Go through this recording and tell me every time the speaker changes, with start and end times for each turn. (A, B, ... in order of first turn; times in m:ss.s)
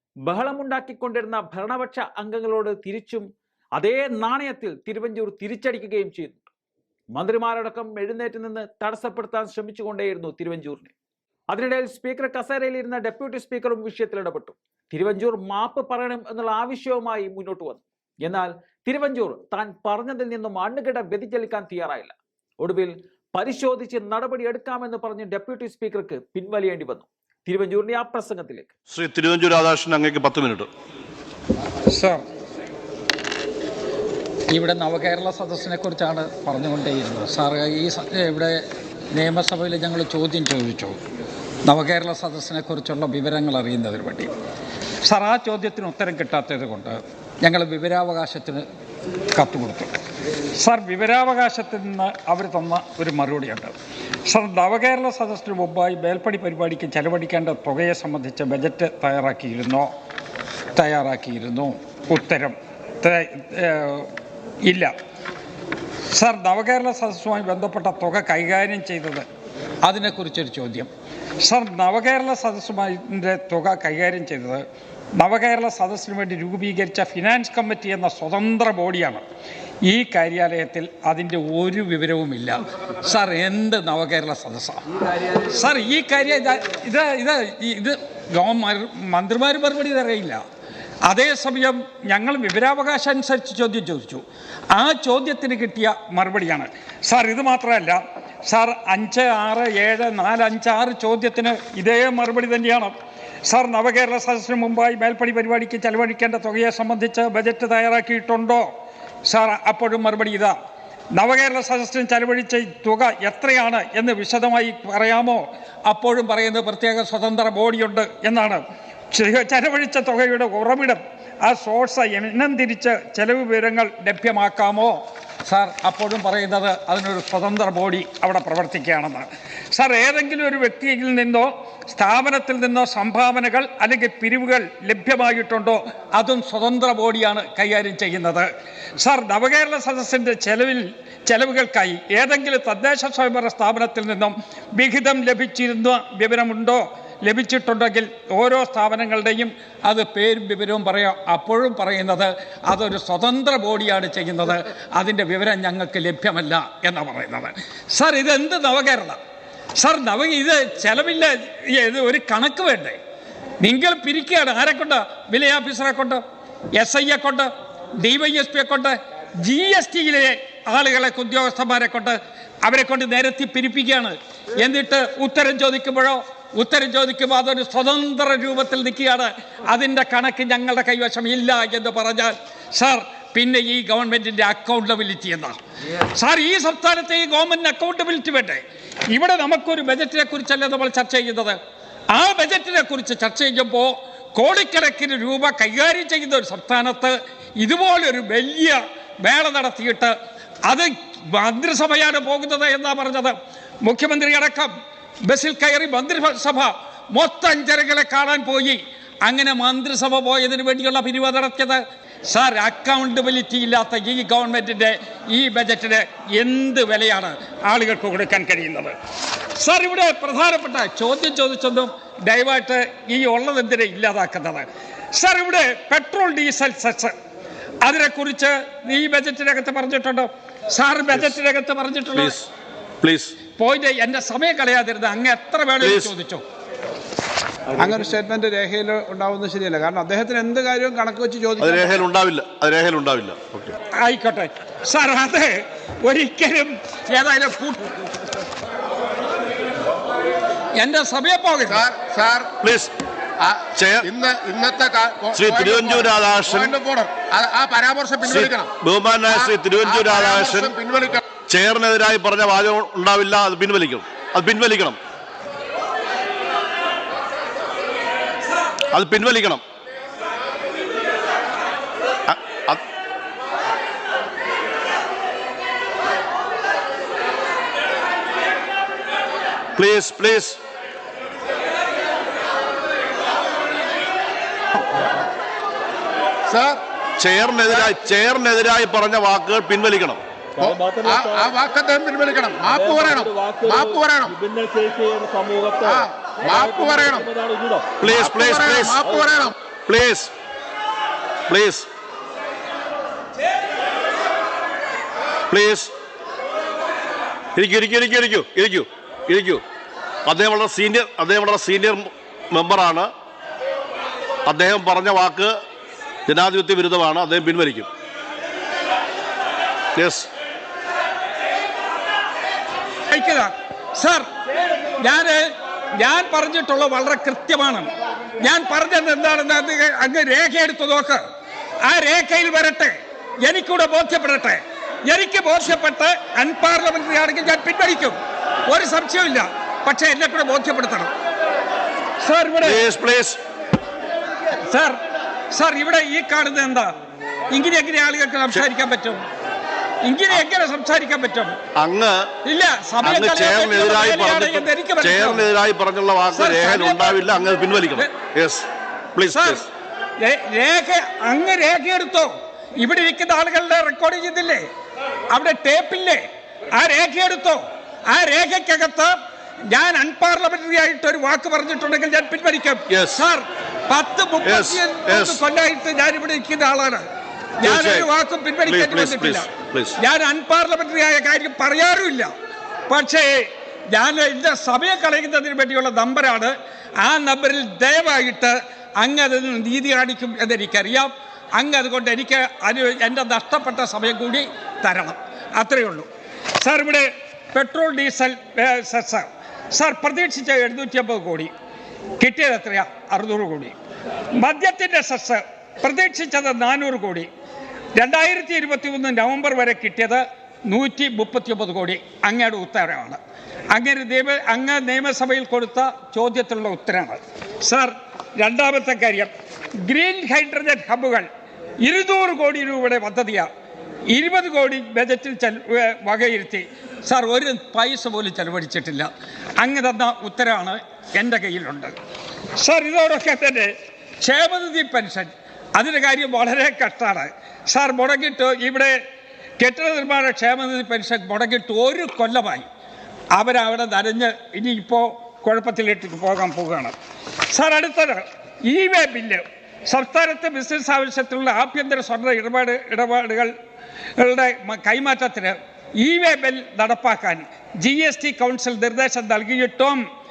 0:00.3-0:03.2 A
0:03.8-0:06.5 A
0:07.2-0:10.9 A
0:11.5-0:28.7 A
0:28.9-0:30.7 B
0:31.9-0:32.2 C
0:34.5-0:38.6 C
0:39.1-0:41.0 C
0:41.7-0:44.3 C
0:45.0-0:48.7 C
0:49.4-0:49.9 C
0:50.6-0:53.7 C
0:54.3-0:59.9 C
1:00.8-1:04.1 C
1:06.1-1:09.2 C
1:09.8-1:10.9 C
1:11.4-1:14.6 C
1:15.2-1:19.2 C
1:19.9-1:24.8 C
1:25.3-1:30.4 C
1:31.1-1:34.2 C
1:34.7-1:42.9 C
1:43.5-1:48.7 C
1:49.3-1:50.6 C
1:51.2-2:18.5 C
2:19.0-2:39.2 C
2:39.8-2:43.0 C
2:43.6-2:46.2 C
2:46.8-3:11.6 C
3:12.1-3:20.1 C
3:20.7-3:23.3 C
3:23.8-3:24.7 C
3:25.2-3:38.9 C
3:39.6-3:47.1 C
3:47.8-3:52.4 C
3:52.2-3:52.5 B
3:53.0-3:53.4 B
3:53.5-3:56.4 C
3:55.8-3:56.1 B
3:57.8-4:02.0 D
4:01.6-4:03.7 B
4:04.0-4:07.9 C
4:10.8-4:11.8 C
4:11.7-4:12.5 E
4:12.6-4:12.9 B
4:13.4-4:18.7 E
4:13.7-4:14.1 B
4:15.3-4:16.7 B
4:18.2-4:20.8 B
4:19.3-4:21.2 E
4:21.5-4:25.0 B
4:28.9-4:29.6 B
4:32.3-4:32.8 B
4:39.8-4:40.6 B
4:46.5-4:46.8 E
4:47.2-4:50.2 B
4:50.6-4:54.4 E
4:50.7-4:51.5 F
4:52.7-4:56.0 F
4:55.9-4:57.3 E
4:56.6-4:57.9 F
4:58.0-4:59.1 B
4:58.0-4:59.6 E
4:59.9-5:00.3 B
5:01.5-5:01.9 B
5:05.5-5:05.9 B
5:07.6-5:09.6 B
5:10.3-5:13.1 B
5:14.5-5:15.6 B
5:16.3-5:17.9 B
5:20.0-5:20.3 B
5:23.1-5:24.3 C
5:25.0-5:25.4 C
5:26.0-5:27.9 C
5:28.4-5:31.2 C
5:31.8-5:38.2 C
5:38.7-5:41.1 C
5:42.2-5:42.8 C
5:42.6-5:43.4 B
5:44.7-5:45.0 C
5:45.5-5:46.9 C
5:47.5-5:49.2 C
5:50.1-5:51.5 C
5:51.8-5:52.3 B
5:52.4-5:55.5 C
5:53.0-5:59.6 B
5:56.3-5:57.3 C
5:59.3-5:59.7 C
6:00.2-6:04.6 C
6:05.3-6:06.2 C
6:06.8-6:09.1 C
6:09.7-6:17.0 C
6:12.9-6:13.2 B
6:14.4-6:15.4 B
6:17.6-6:22.3 C
6:17.6-6:18.1 B
6:18.7-6:20.0 B
6:22.9-6:23.4 C
6:23.9-6:26.5 C
6:27.0-6:36.1 C
6:36.6-6:41.5 C
6:42.2-6:43.8 C
6:44.4-6:47.3 C
6:48.0-6:53.2 C
6:53.7-6:59.3 C
6:59.8-7:01.3 C
7:01.8-7:03.5 C
7:04.1-7:12.0 C
7:12.6-7:13.7 C
7:14.2-7:18.9 C
7:19.6-7:22.7 C
7:23.4-7:26.9 C
7:27.5-7:33.5 C
7:34.2-7:40.0 C